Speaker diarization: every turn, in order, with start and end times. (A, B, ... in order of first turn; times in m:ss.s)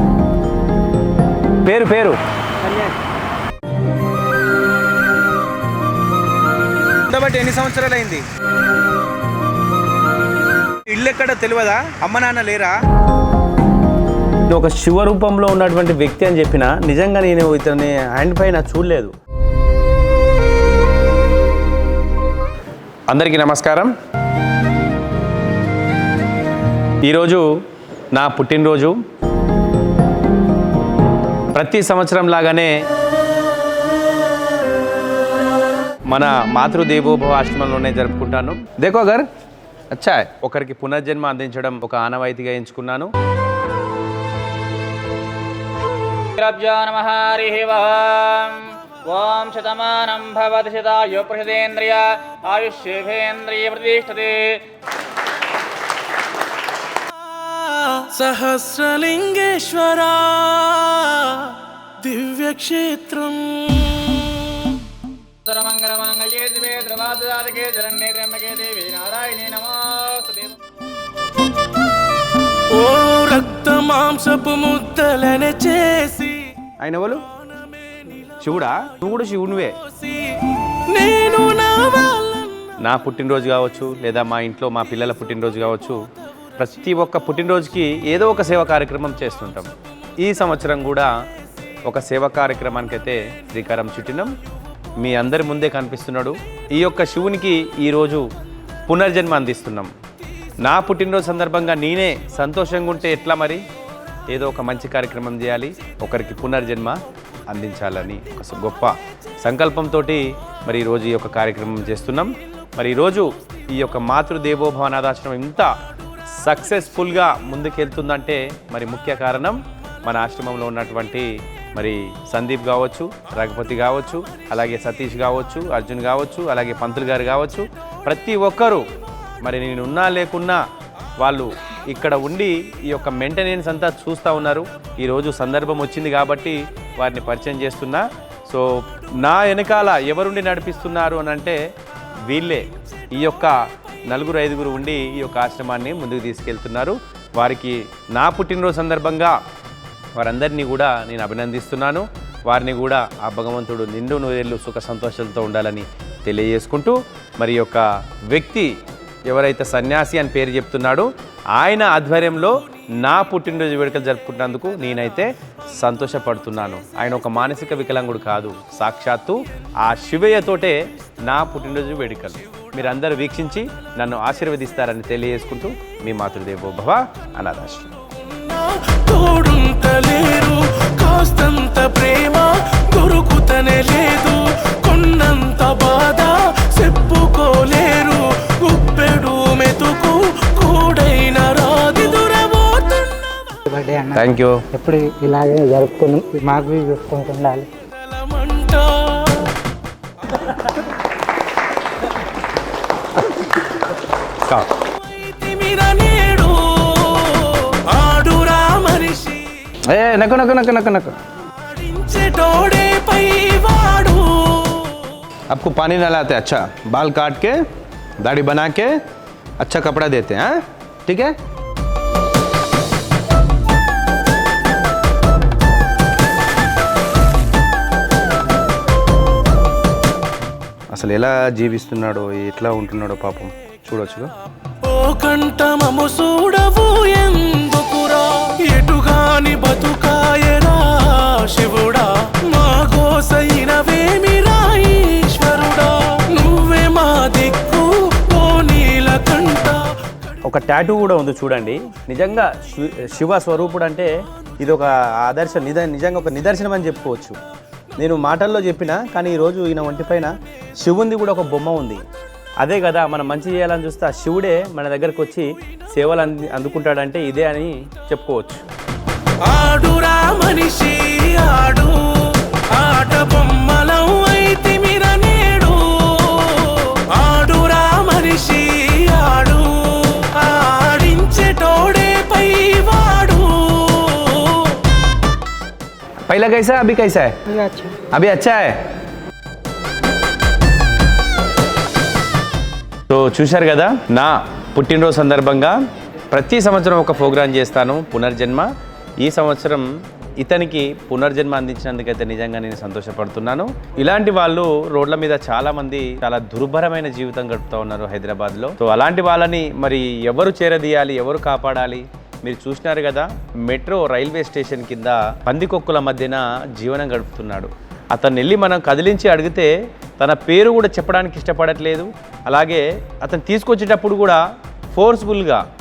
0:01.6-0:02.2 A
0:07.0-0:08.2 A
0:10.8-0:12.8 A
0:14.5-0:19.1 A
0:23.1-0:23.9 A
0:27.0-0:27.5 A
0:28.1-0:29.0 A
0:31.5-0:32.8 A
0:36.1-0:39.3 A
0:39.9-0:43.1 A
0:46.2-0:54.6 B
0:57.5-1:04.8 C
1:05.4-1:10.6 B
1:12.7-1:16.6 C
1:16.8-1:17.2 A
1:18.4-1:19.8 A
1:19.9-1:22.7 C
1:22.8-1:26.0 A
1:26.6-1:31.1 A
1:31.8-1:34.3 A
1:35.0-1:38.3 A
1:38.9-1:39.9 A
1:40.6-1:43.6 A
1:44.3-1:55.7 A
1:56.4-2:08.8 A
2:09.4-2:10.6 A
2:11.2-2:21.6 A
2:22.2-2:29.4 A
2:30.2-2:38.7 A
2:39.3-2:57.9 A
2:58.3-3:13.4 C
3:13.6-3:17.7 D
3:14.1-3:14.6 A
3:17.9-3:19.6 C
3:25.0-3:29.7 C
3:29.9-3:31.2 A
3:31.6-3:35.2 C
3:35.5-3:37.6 A
3:38.2-3:39.0 A
3:39.6-3:41.3 A
3:50.9-3:54.3 A
3:54.8-4:10.0 C
4:10.5-4:17.4 A
4:18.0-4:22.0 A
4:22.6-4:28.6 A
4:29.4-4:44.8 C
4:46.2-4:47.4 A
4:47.5-4:48.0 D
4:48.1-4:48.8 A
4:53.1-4:55.8 A
4:56.3-4:58.7 A
4:59.2-5:24.4 A
5:24.9-5:25.6 A